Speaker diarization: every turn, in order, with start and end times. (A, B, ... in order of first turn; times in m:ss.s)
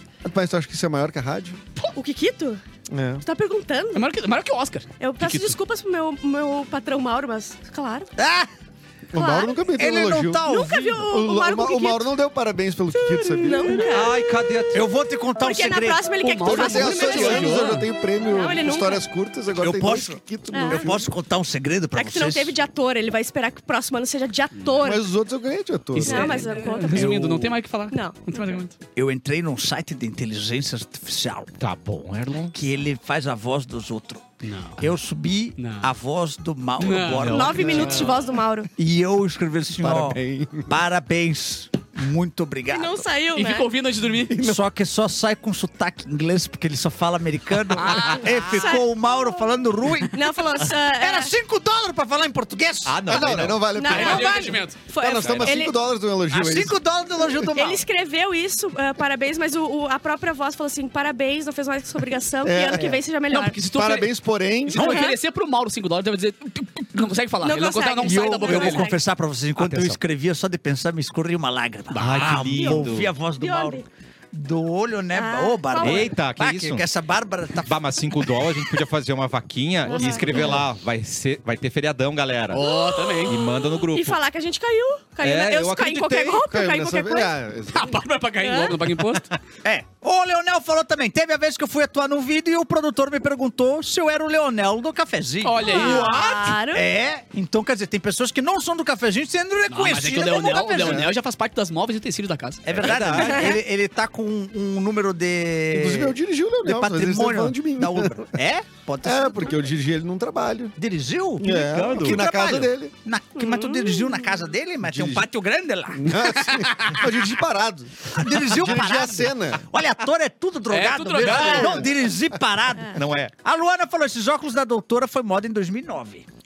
0:00.2-0:01.6 A
0:01.8-0:02.6 B
0:02.9-0:03.2 A
0:03.2-0:04.0 B
0:03.9-0:05.6 C
0:05.0-0:08.1 B
0:08.2-0:08.5 D
0:09.1-0:10.4 A
0:09.2-0:09.6 B
0:09.8-0:11.1 D
0:10.4-0:12.1 B
0:11.1-0:13.9 A
0:13.0-0:14.8 B
0:13.8-0:14.8 E
0:14.7-0:16.1 D
0:15.4-0:19.0 B
0:16.2-0:17.8 C
0:16.4-0:21.1 A
0:19.6-0:22.6 D
0:20.5-0:20.9 B
0:21.9-0:25.0 B
0:24.8-0:26.4 A
0:26.0-0:28.7 C
0:26.0-0:27.4 B
0:27.0-0:27.4 D
0:27.9-0:28.6 B
0:29.0-0:31.5 D
0:31.6-0:32.5 E
0:32.5-0:34.2 D
0:34.4-0:34.8 C
0:34.8-0:38.2 D
0:35.6-0:35.9 C
0:36.8-0:38.2 C
0:37.3-0:38.7 B
0:37.6-0:38.1 A
0:38.8-0:43.1 D
0:39.8-0:40.7 A
0:42.7-0:43.7 B
0:43.4-0:44.4 C
0:44.3-0:44.6 A
0:44.4-0:53.4 D
0:47.8-0:48.7 C
0:48.4-0:48.8 B
0:50.1-0:51.3 B
0:52.9-0:53.7 E
0:53.1-0:57.5 A
0:53.7-0:55.8 B
0:53.9-0:54.8 C
0:55.2-0:55.5 E
0:56.3-0:57.8 D
0:57.6-1:03.6 B
1:02.4-1:03.0 A
1:03.3-1:04.1 C
1:03.7-1:04.8 A
1:04.7-1:08.9 C
1:04.8-1:05.2 B
1:04.8-1:05.1 D
1:07.4-1:09.0 B
1:08.0-1:18.7 D
1:09.6-1:10.0 E
1:11.9-1:12.5 C
1:12.0-1:13.1 E
1:12.6-1:12.9 B
1:13.4-1:13.8 B
1:15.1-1:16.2 B
1:15.8-1:16.8 E
1:17.6-1:22.7 E
1:19.9-1:20.5 B
1:19.9-1:20.6 C
1:22.5-1:23.4 C
1:22.6-1:27.3 B
1:23.2-1:24.2 E
1:25.2-1:26.4 E
1:26.4-1:28.0 A
1:27.7-1:29.3 C
1:28.4-1:28.8 B
1:29.6-1:41.1 D
1:35.4-1:36.2 C
1:35.6-1:36.8 B
1:39.7-1:42.6 C
1:42.6-1:49.7 D
1:42.7-1:43.6 E
1:43.2-1:43.6 B
1:45.7-1:48.3 A
1:49.0-1:50.8 A
1:50.8-1:56.7 D
1:51.4-1:52.9 A
1:51.5-1:52.2 E
1:53.4-1:54.4 B
1:55.9-1:59.6 A
1:58.1-2:06.3 D
2:00.7-2:01.8 C
2:01.4-2:01.8 A
2:03.0-2:03.3 E